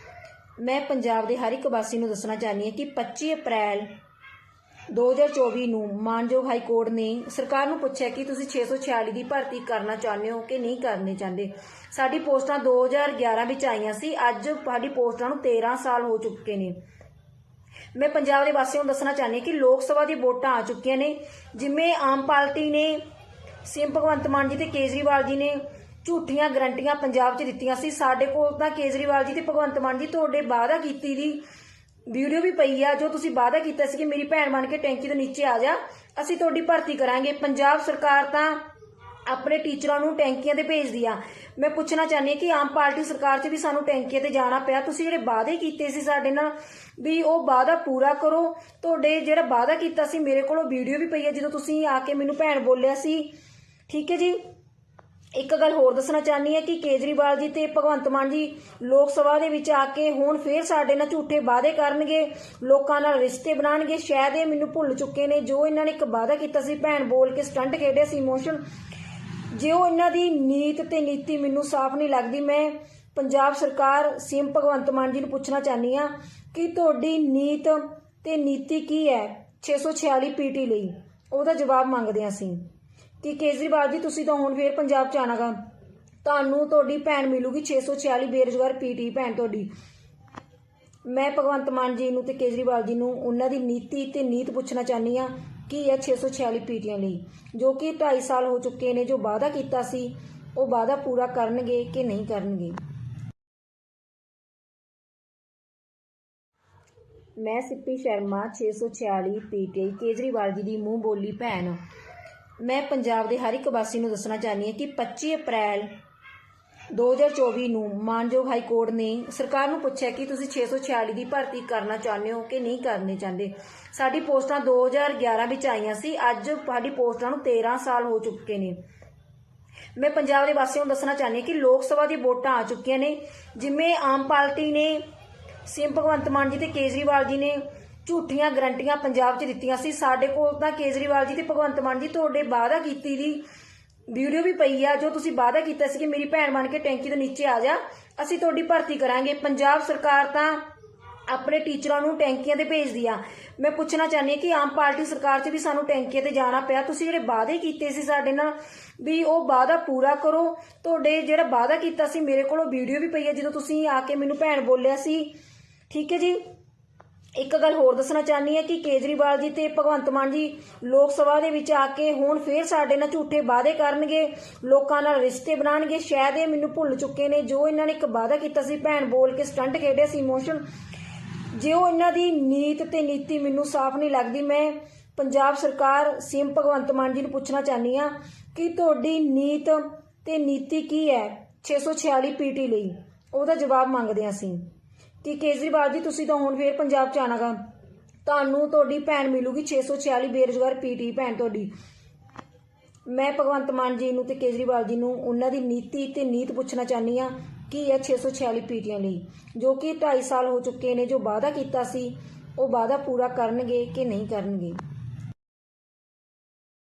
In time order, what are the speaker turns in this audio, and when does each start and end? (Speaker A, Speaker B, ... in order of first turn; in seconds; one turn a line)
Speaker A: 0.6-3.9
Speaker A: 4.9-16.8
Speaker A: 17.9-23.0
Speaker A: 23.6-31.4
Speaker A: 32.1-38.6
Speaker A: 39.3-53.3
Speaker A: 53.9-54.4
Speaker A: 55.4-68.6
Speaker A: 69.5-82.6
Speaker A: 83.2-85.6
Speaker A: 86.2-89.7
Speaker A: 91.1-102.8
Speaker A: 107.4-111.8
Speaker A: 112.6-115.9
Speaker A: 116.9-128.8
Speaker A: 130.0-135.0
Speaker A: 135.7-143.4
Speaker A: 144.1-150.6
Speaker A: 151.3-165.3
Speaker A: 165.9-166.4
Speaker A: 167.4-180.6
Speaker A: 181.5-194.6
Speaker A: 195.2-197.6
Speaker A: 198.2-201.7
Speaker A: 203.1-214.8